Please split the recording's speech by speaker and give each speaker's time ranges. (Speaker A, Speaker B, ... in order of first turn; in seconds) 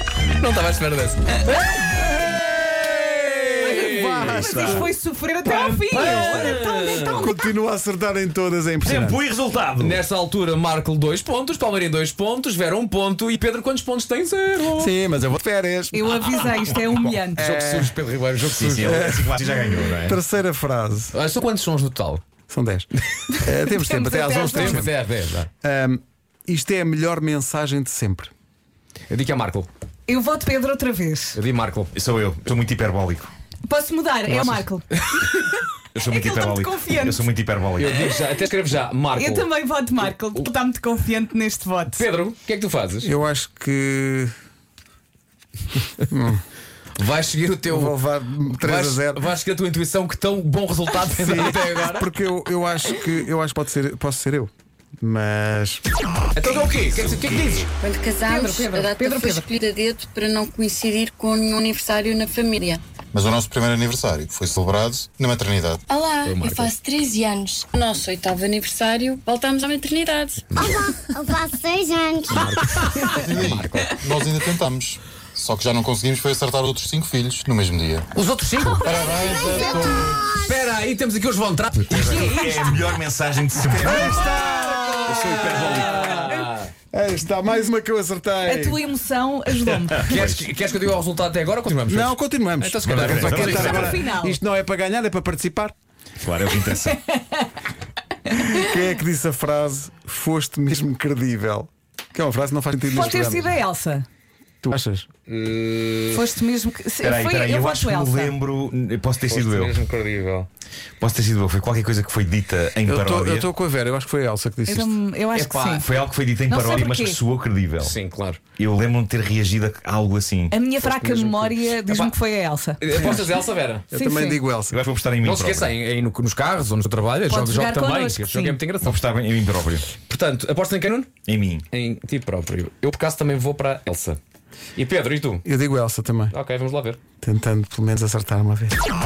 Speaker A: 0.3-4.8, 5.4-7.3, 9.8-14.9, 17.3-19.1, 21.1-22.2, 24.3-25.5, 29.1-29.7, 31.3-31.9, 34.3-34.6, 37.8-39.5, 42.0-43.1, 47.0-52.1, 56.3-57.7, 66.2-66.7, 70.5-70.9, 72.3-74.0, 78.1-82.8, 83.8-84.2, 85.0-86.7, 90.0-93.9, 105.3-106.2, 109.3-110.5, 115.3-115.8, 117.8-118.4, 120.8-122.1, 122.8-123.8, 125.2-129.0, 129.9-131.1, 131.7-134.2, 134.8-135.4, 136.3-137.0
Speaker B: 3.5-4.9, 6.0-9.2, 14.7-16.1, 17.4-17.9, 18.8-21.1, 22.5-22.9, 23.4-24.9, 25.6-28.3, 43.0-44.3, 46.0-46.4, 47.7-49.2, 51.1-55.8, 78.9-80.3, 81.9-82.3, 83.7-88.8, 91.9-95.7, 98.5-103.5, 104.6-105.1, 112.8-115.0, 122.9-123.2, 123.9-124.8, 135.4-136.3, 137.2-138.8
Speaker C: 4.2-7.3, 15.9-17.4, 23.8-24.8, 30.1-31.4, 33.7-37.3, 38.0-38.3, 39.1-42.0, 58.3-59.5, 78.8-79.8, 88.4-90.1, 93.5-94.4, 96.6-97.6, 98.3-98.7, 102.9-104.0, 106.1-108.4, 114.7-115.9, 116.5-117.2, 120.5-123.2, 124.0-124.4, 127.3-128.6
Speaker D: 4.4-4.9, 8.8-10.0, 18.5-20.2, 31.9-33.3, 35.9-38.0, 82.0-84.3, 85.2-86.3, 89.7-90.5, 92.8-94.0, 96.2-97.0, 107.0-109.8, 111.0-113.5, 115.8-117.9, 118.6-120.6, 124.7-125.7, 128.8-129.9, 131.2-131.7
Speaker E: 57.8-62.8, 65.9-70.4, 72.4-72.9
Speaker F: 63.1-65.8, 73.0-78.0
Speaker G: 70.5-72.3, 79.2-80.3